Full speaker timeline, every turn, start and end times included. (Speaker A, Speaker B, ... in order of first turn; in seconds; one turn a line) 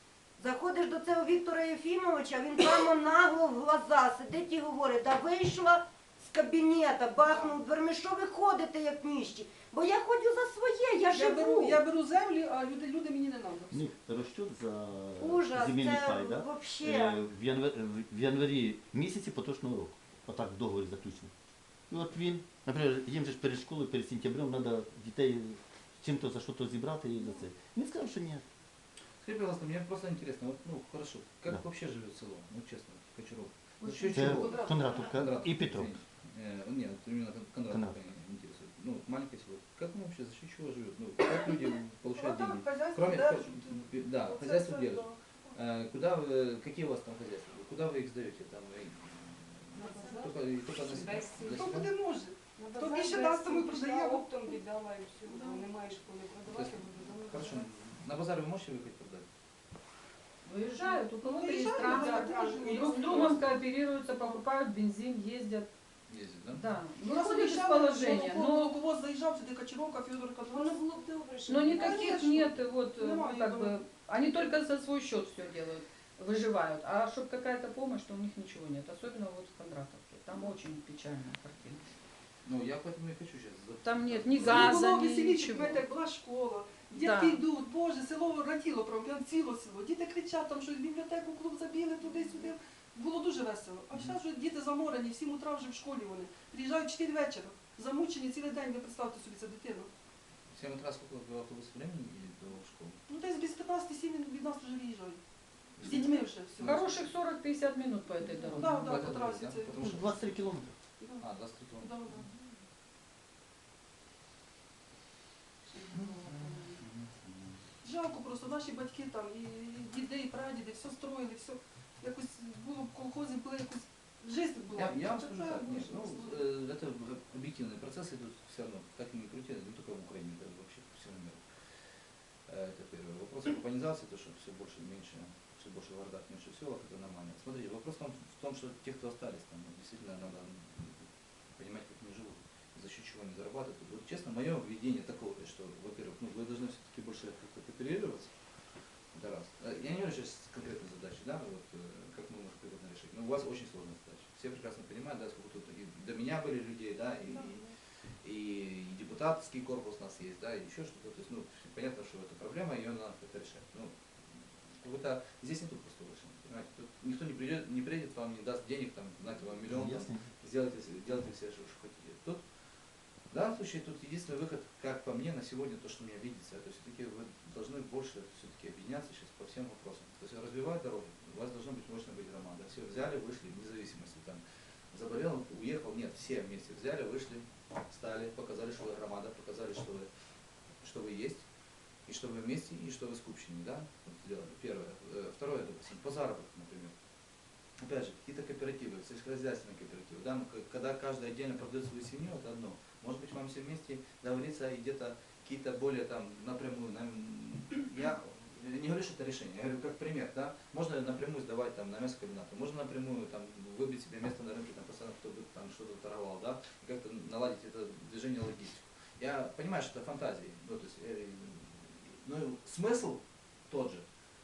Speaker A: 0.4-11.8
Speaker B: 11.1-13.9
Speaker C: 13.7-21.3
Speaker A: 15.2-17.2
Speaker C: 21.9-28.4
Speaker D: 29.2-51.9
Speaker B: 33.8-35.1
Speaker C: 34.1-35.9
Speaker C: 37.7-38.0
Speaker B: 42.1-45.2
Speaker E: 49.8-50.3
Speaker B: 49.8-50.1
Speaker E: 51.0-51.3
Speaker B: 51.4-54.6
Speaker E: 52.8-55.9
Speaker B: 55.3-55.8
Speaker D: 56.5-59.2
Speaker B: 56.5-57.0
Speaker F: 60.4-65.7
Speaker B: 60.7-64.4
Speaker D: 66.1-66.6
Speaker F: 66.5-68.8
Speaker B: 67.0-70.9
Speaker E: 70.5-72.1
Speaker F: 71.5-81.8
Speaker B: 71.6-73.9
Speaker D: 82.4-84.9
Speaker F: 83.8-85.8
Speaker B: 84.4-99.9
Speaker F: 86.9-87.4
Speaker D: 100.5-103.0
Speaker B: 103.1-105.2
Speaker D: 105.8-106.9
Speaker B: 105.8-107.0
Speaker F: 105.9-109.0
Speaker B: 108.3-110.1
Speaker D: 108.5-110.3
Speaker C: 109.7-110.7
Speaker B: 111.0-111.2
Speaker D: 111.2-112.3
Speaker B: 111.8-112.3
Speaker B: 115.7-116.8
Speaker D: 115.9-117.6
Speaker B: 117.8-126.4
Speaker D: 124.7-131.6
Speaker D: 132.5-148.3
Speaker D: 149.1-157.7
Speaker B: 157.2-157.7
Speaker D: 158.2-163.9
Speaker D: 164.8-172.4
Speaker C: 169.7-170.3
Speaker D: 173.3-190.1
Speaker D: 190.8-191.4
Speaker D: 192.1-196.9
Speaker D: 197.8-224.0